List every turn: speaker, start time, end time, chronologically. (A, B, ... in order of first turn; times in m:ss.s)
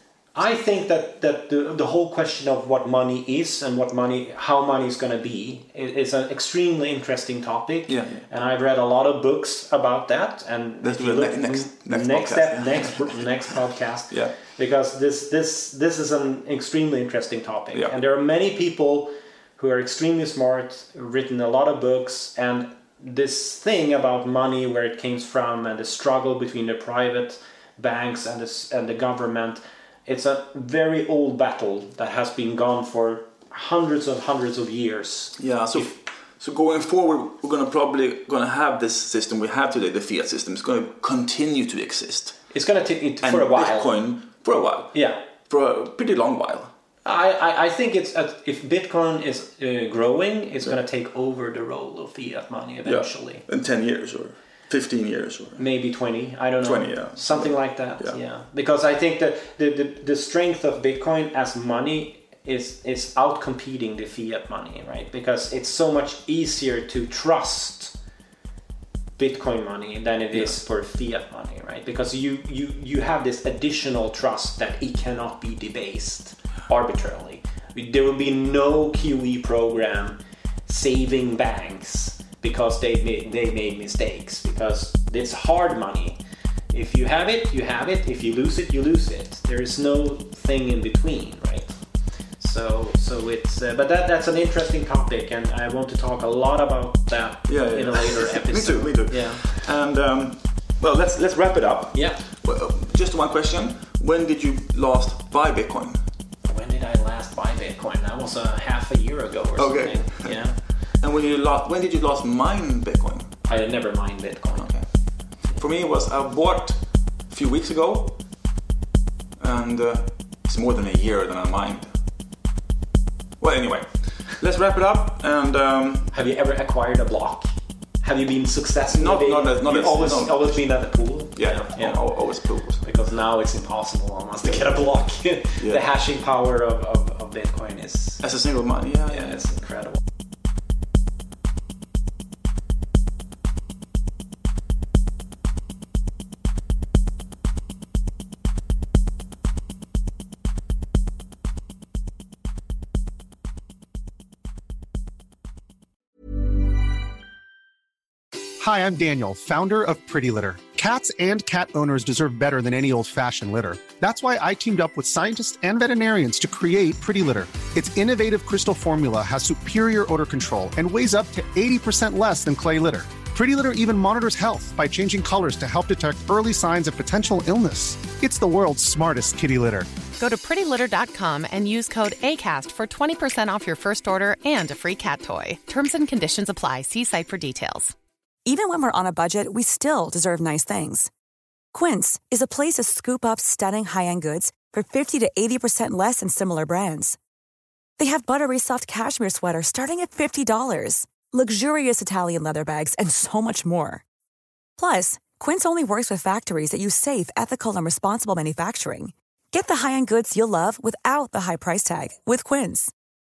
0:00.4-0:35.9 A
0:07.9-0:08.2 B
0:10.8-0:13.4 B
0:35.4-0:42.4 B
0:42.5-0:44.0 A
0:43.2-0:45.0 B
0:44.9-0:45.2 A
0:45.5-0:46.7 B
0:47.0-0:53.4 A
0:52.8-0:55.6 B
0:55.6-1:08.0 A
0:56.6-0:58.2 B
1:09.2-1:26.2 A
1:26.7-1:31.7 A
1:32.4-1:39.4 A
1:37.5-1:46.0 B
1:41.9-1:42.2 A
1:46.5-1:50.6 A
1:49.6-1:50.4 B
1:50.9-1:53.4 B
1:53.5-1:54.8 A
1:54.6-1:54.9 B
1:55.5-1:58.2 B
1:59.4-2:01.9 B
2:03.4-2:06.1 B
2:06.1-2:07.5 A
2:08.0-2:12.0 A
2:08.9-2:10.7 B
2:11.4-2:12.8 B
2:12.8-2:18.2 A
2:15.6-2:15.8 B
2:18.2-2:19.4 B
2:19.1-2:20.0 A
2:38.6-2:59.9 C
3:00.2-3:07.9 D
3:08.4-3:11.1 E
3:11.7-3:17.2 E
3:18.0-3:24.0 E
3:24.8-3:32.9 E